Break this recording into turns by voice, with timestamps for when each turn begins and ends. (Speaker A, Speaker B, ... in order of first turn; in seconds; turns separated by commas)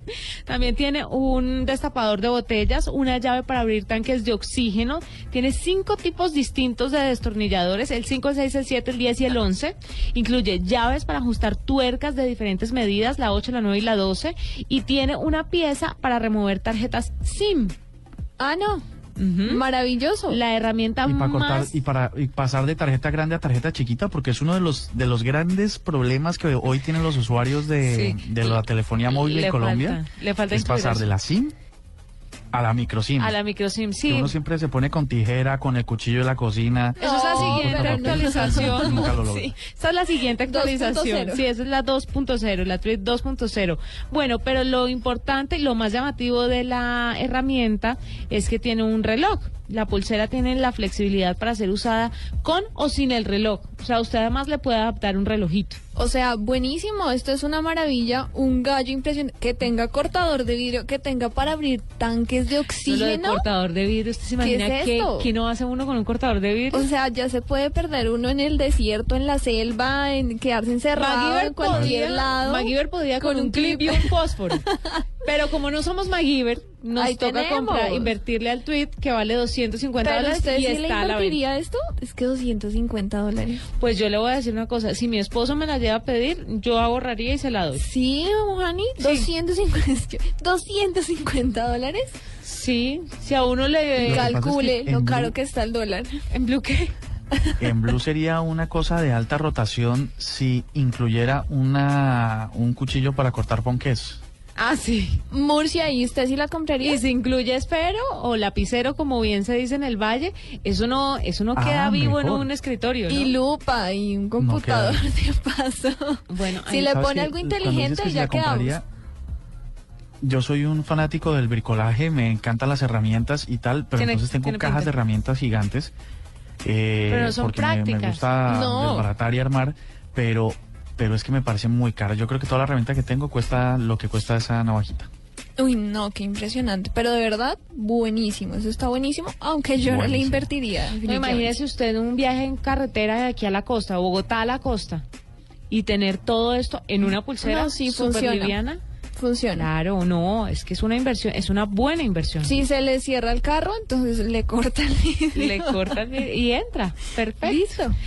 Speaker A: 0.5-17.7, Speaker B: 18.4-18.8, Speaker A: 19.2-19.6, Speaker B: 19.4-20.4, Speaker A: 20.3-21.7, Speaker C: 21.0-31.5, Speaker A: 27.8-31.1, Speaker C: 32.5-33.4, Speaker A: 33.2-34.3, Speaker C: 34.0-39.5, Speaker B: 37.0-39.4, Speaker A: 37.0-55.8, Speaker B: 40.4-41.4, Speaker B: 56.0-63.5, Speaker A: 62.8-66.9, Speaker B: 64.4-65.3, Speaker B: 66.7-75.0, Speaker A: 70.9-74.7, Speaker A: 75.2-81.4, Speaker B: 76.9-78.1, Speaker B: 80.0-83.6, Speaker A: 83.8-87.8, Speaker B: 87.7-92.2, Speaker A: 89.0-89.3, Speaker A: 92.4-94.4, Speaker C: 94.0-95.3, Speaker B: 94.0-96.2, Speaker A: 96.3-96.9, Speaker C: 97.6-104.2, Speaker A: 104.6-105.2, Speaker B: 105.3-107.0, Speaker A: 106.8-113.3, Speaker C: 111.5-112.5, Speaker B: 113.1-118.8, Speaker C: 114.4-115.1, Speaker A: 116.3-117.0, Speaker C: 116.8-118.8, Speaker C: 120.2-125.9, Speaker A: 124.0-124.9, Speaker C: 126.6-135.1, Speaker A: 127.1-128.2, Speaker B: 128.4-129.1, Speaker B: 135.6-141.6, Speaker C: 139.8-140.5, Speaker A: 141.0-145.0, Speaker A: 145.7-148.8, Speaker B: 147.4-148.6, Speaker B: 149.1-149.7, Speaker A: 149.6-152.6, Speaker B: 152.4-156.0, Speaker A: 155.3-157.6, Speaker B: 157.4-157.9